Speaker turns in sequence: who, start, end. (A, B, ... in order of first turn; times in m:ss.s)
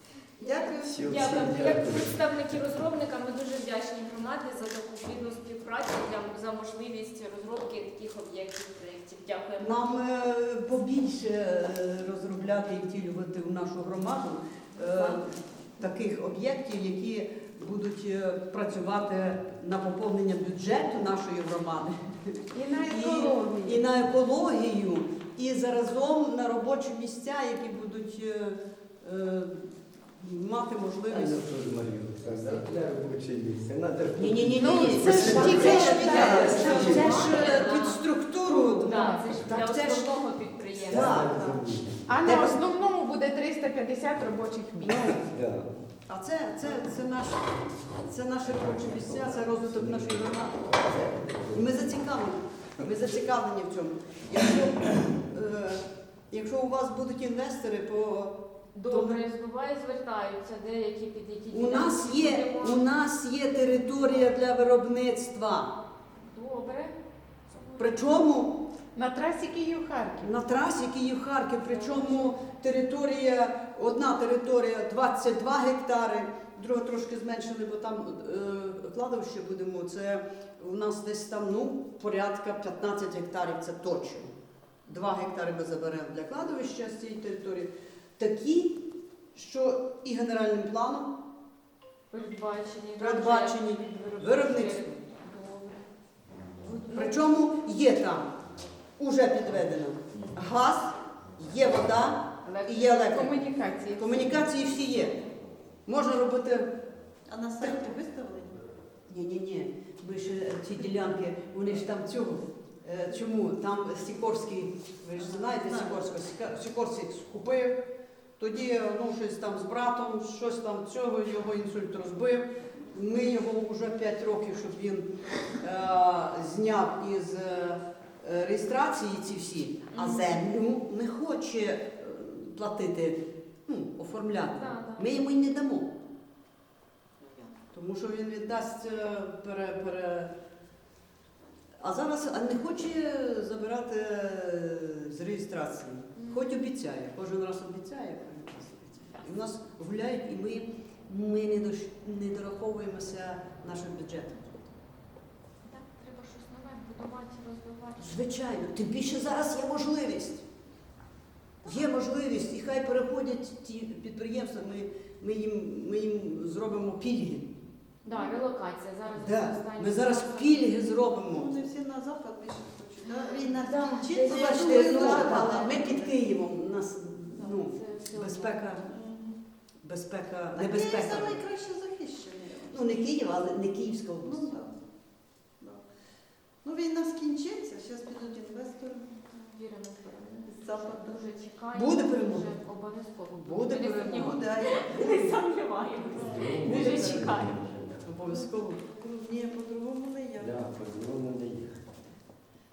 0:00.4-0:09.8 A
0:00.4-0:01.1 B
0:00.8-0:02.7 C
0:09.6-0:31.4 D
0:14.8-0:15.2 A
0:22.5-0:23.8 E
0:31.1-0:37.6 C
0:32.2-0:32.8 A
0:34.2-0:40.2 D
0:34.5-0:36.4 E
0:35.3-0:41.6 A
0:38.6-0:39.3 E
0:40.8-0:42.3 C
0:40.9-0:41.4 D
0:42.1-0:45.1 E
0:42.2-0:42.6 D
0:44.8-0:45.1 D
0:45.0-0:45.9 C
0:46.0-0:58.4 D
0:48.5-0:51.7 C
0:58.7-1:02.9 A
0:58.9-0:59.2 D
1:01.5-1:05.7 D
1:03.9-1:04.3 A
1:06.2-1:07.0 A
1:07.5-1:08.2 A
1:07.8-1:08.6 D
1:08.9-1:10.3 E
1:10.2-1:24.3 D
1:11.6-1:12.4 A
1:24.8-1:28.8 D
1:29.3-1:31.1 D
1:32.1-1:35.8 A
1:33.0-1:35.0 D
1:36.6-1:37.2 A
1:36.9-1:38.4 D
1:39.0-1:43.4 D
1:42.4-1:43.3 A
1:43.1-1:44.3 E
1:44.0-1:45.2 D
1:45.8-1:46.7 D
1:47.2-1:48.6 B
1:47.6-1:47.9 D
1:49.0-1:57.8 D
1:55.1-1:56.1 B
1:58.4-2:15.9 D
2:09.9-2:10.4 A
2:14.5-2:15.2 A
2:17.2-2:17.6 A
2:17.7-2:20.3 D
2:21.8-2:34.4 D
2:26.1-2:26.6 A
2:35.6-2:38.2 A
2:38.0-2:40.4 D
2:41.6-2:41.9 A
2:41.6-2:47.5 D
2:48.0-2:50.9 A
2:48.1-2:48.4 B
2:49.1-2:51.5 D
2:51.2-2:56.3 B
2:53.0-2:55.8 A
2:53.6-2:58.9 D
2:57.3-2:58.7 A
2:58.9-2:59.4 B
2:59.8-3:01.4 D
3:00.5-3:03.1 B
3:02.7-3:04.6 D
3:04.2-3:04.9 B
3:05.5-3:05.9 B
3:06.6-3:09.1 B
3:09.2-3:17.6 A
3:10.4-3:11.2 B
3:11.7-3:12.5 D
3:13.4-3:15.2 D
3:14.2-3:15.2 B
3:16.1-3:18.1 C
3:16.6-3:17.4 D
3:18.0-3:18.8 D
3:18.2-3:20.6 B
3:20.4-3:21.9 C